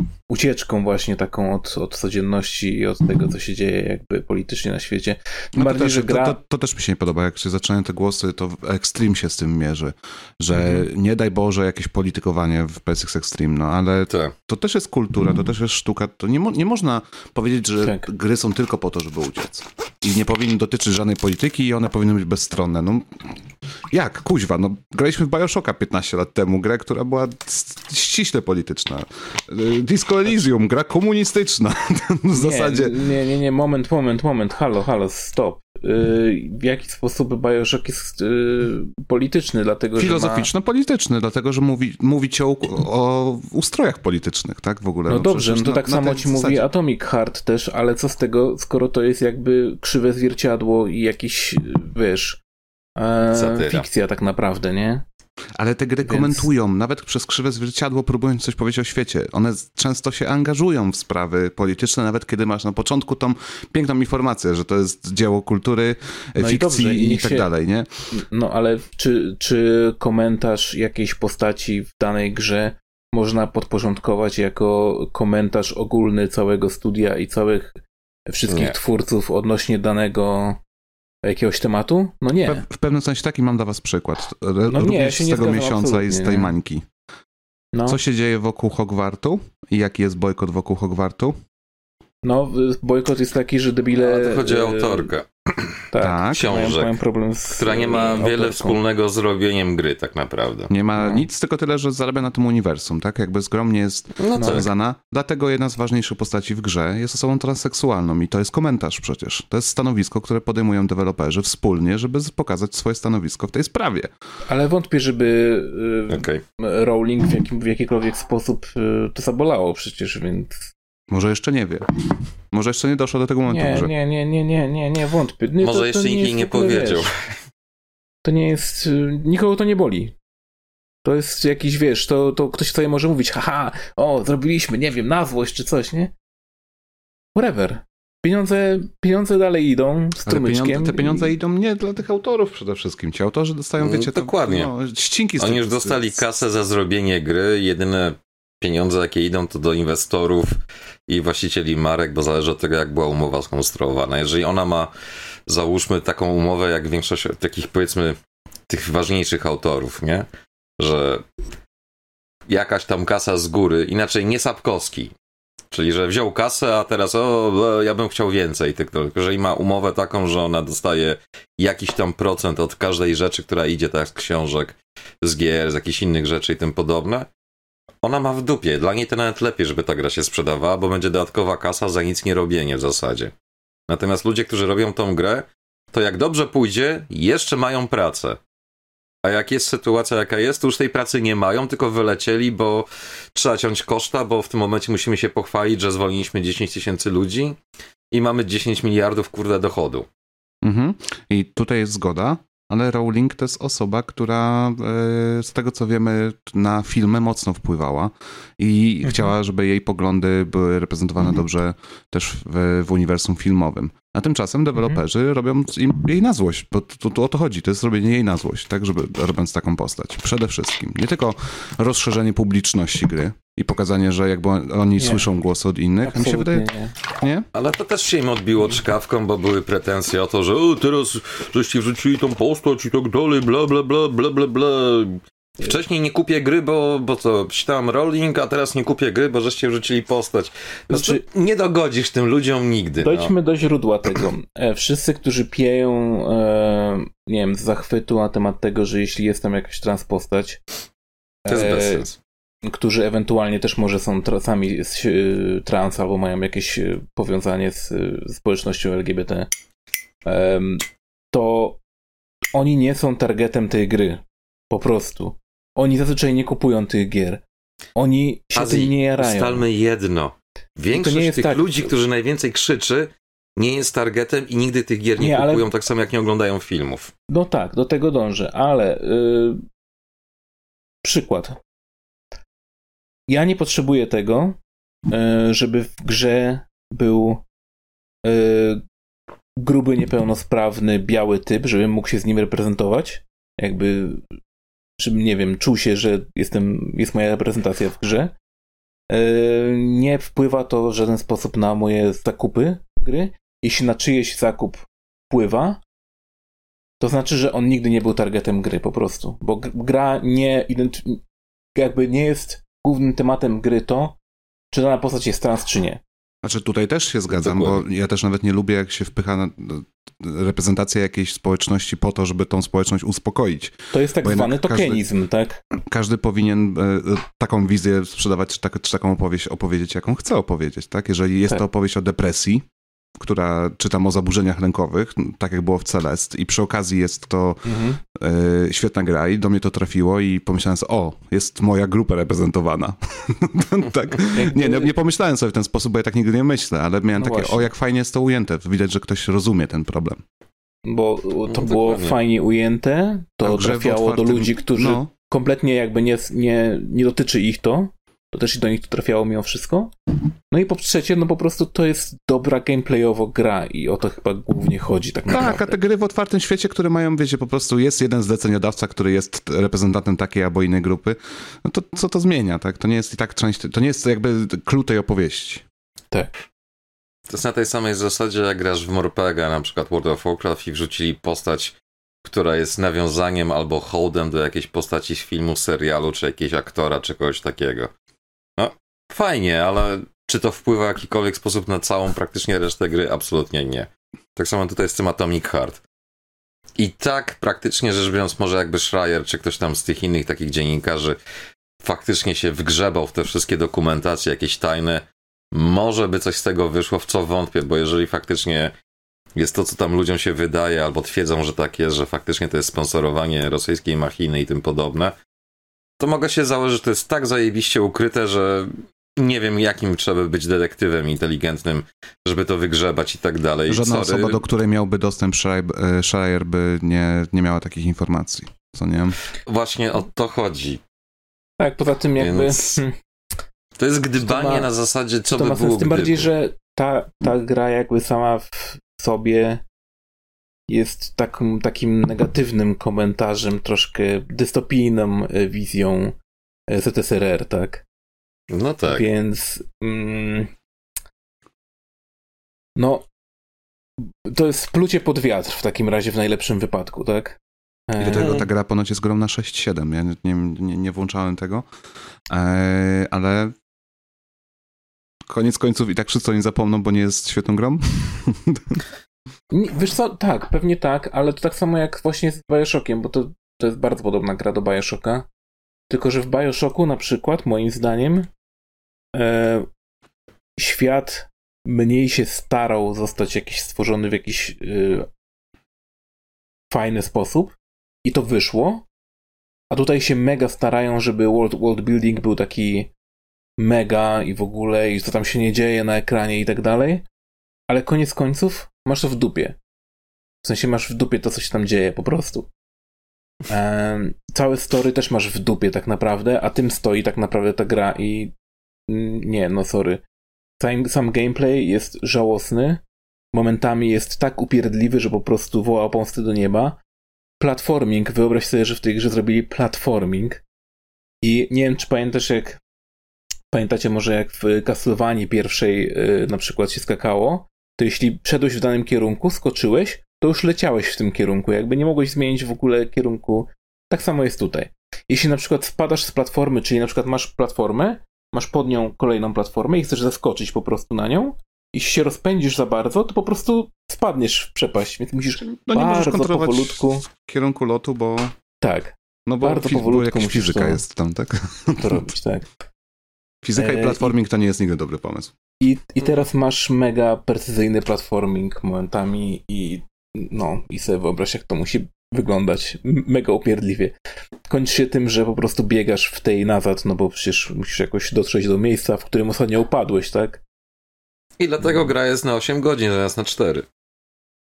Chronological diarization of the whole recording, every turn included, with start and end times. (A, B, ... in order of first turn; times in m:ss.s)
0:00.3-0:06.4 A
0:05.6-0:23.3 B
0:10.5-0:10.9 A
0:17.8-0:18.1 A
0:23.9-0:33.0 B
0:32.3-0:40.5 A
0:40.0-0:46.6 B
0:45.1-0:52.4 A
0:53.0-0:55.0 A
0:53.3-0:53.9 C
0:55.6-1:07.9 B
0:56.0-0:56.5 A
1:06.4-1:07.5 A
1:08.1-1:17.8 A
1:18.3-1:20.6 A
1:18.5-1:18.7 C
1:21.2-1:22.6 A
1:22.4-1:26.8 B
1:24.7-1:26.5 A
1:27.7-1:28.0 A
1:27.9-1:31.4 B
1:32.2-1:35.1 A
1:34.0-1:37.0 C
1:35.9-1:38.8 A
1:36.0-1:36.7 B
1:37.5-1:40.7 C
1:40.7-1:54.1 B
1:41.0-1:41.2 A
1:44.2-1:44.7 C
1:44.3-1:44.6 A
1:54.5-2:00.7 A
1:56.1-1:56.4 C
2:01.1-2:01.9 B
2:02.5-2:03.9 B
2:03.5-2:07.1 A
2:05.6-2:07.4 C
2:08.2-2:10.1 A
2:11.0-2:16.1 A
2:17.3-2:21.3 A
2:20.2-2:26.2 B
2:23.8-2:24.7 C
2:25.4-2:30.6 C
2:31.1-2:34.9 C
2:35.5-2:38.2 C
2:38.7-2:40.3 C
2:40.8-2:41.2 C
2:42.5-2:45.1 C
2:45.7-2:57.3 C
2:58.0-3:03.3 C
3:03.9-3:08.4 C
3:09.2-3:17.6 C
3:18.1-3:20.1 C
3:20.6-3:47.4 B
3:29.0-3:29.3 A
3:45.0-3:45.2 A
3:46.0-3:46.9 A
3:47.5-4:03.3 C
4:00.9-4:01.2 A
4:03.0-4:10.6 A
4:11.4-4:12.1 A
4:11.5-4:12.2 C
4:12.6-4:19.5 A
4:20.2-4:21.8 A
4:22.5-4:27.4 A
4:28.0-4:29.7 A
4:28.5-4:37.1 C
4:30.9-4:31.9 A
4:35.2-4:35.7 A
4:37.3-4:39.6 A
4:41.0-4:41.6 A
4:43.3-4:47.4 A
4:48.2-4:48.8 A
4:49.6-4:54.3 A
4:55.0-4:58.3 A
4:59.1-5:05.8 A
5:07.0-5:11.2 A
5:11.7-5:14.2 A
5:14.7-5:16.0 A
5:16.4-5:25.0 B
5:17.3-5:17.8 C
5:23.9-5:25.6 A
5:25.9-5:32.6 B
5:33.2-5:50.2 B
5:37.6-5:38.0 A
5:44.3-5:44.9 A
5:47.2-5:47.7 A
5:50.8-5:59.9 A
5:51.5-5:52.2 C
5:53.4-5:55.1 B
6:00.5-6:05.8 A
6:05.3-6:15.6 B
6:17.3-6:27.9 C
6:28.6-6:35.8 C
6:36.8-6:41.2 C
6:41.8-6:48.7 C
6:49.3-6:55.1 C
6:56.0-7:04.4 C
7:03.7-7:09.2 B
7:09.5-7:10.8 C
7:11.6-7:13.0 A
7:12.2-7:12.8 C
7:13.8-7:16.3 C
7:14.2-7:14.7 A
7:15.3-7:19.6 A
7:20.7-7:26.2 A
7:26.7-7:27.8 A
7:28.5-7:29.0 C
7:28.8-7:30.5 A
7:32.8-7:33.0 A
7:34.0-7:38.4 A
7:38.0-7:41.6 B
7:38.2-7:38.4 C
7:42.3-7:43.5 B
7:45.3-7:48.8 B
7:49.5-7:55.3 A
7:55.9-7:58.3 A
7:59.1-7:59.7 A
8:00.6-8:05.1 A
8:06.7-8:08.9 A
8:09.7-8:12.9 A
8:13.6-8:17.0 A
8:17.7-8:19.6 A
8:20.4-8:22.5 A
8:23.5-8:28.3 A
8:28.9-8:30.0 A
8:30.6-8:32.8 A
8:33.3-8:36.8 A
8:37.4-8:40.4 A
8:41.2-8:42.6 A
8:43.5-9:07.1 A
9:05.4-9:08.4 B
9:08.6-9:10.8 A
9:09.3-9:12.0 B
9:11.8-9:12.5 A
9:13.4-9:15.3 B
9:13.6-9:14.1 A
9:15.6-9:23.9 A
9:24.5-9:30.4 A
9:31.4-9:33.6 C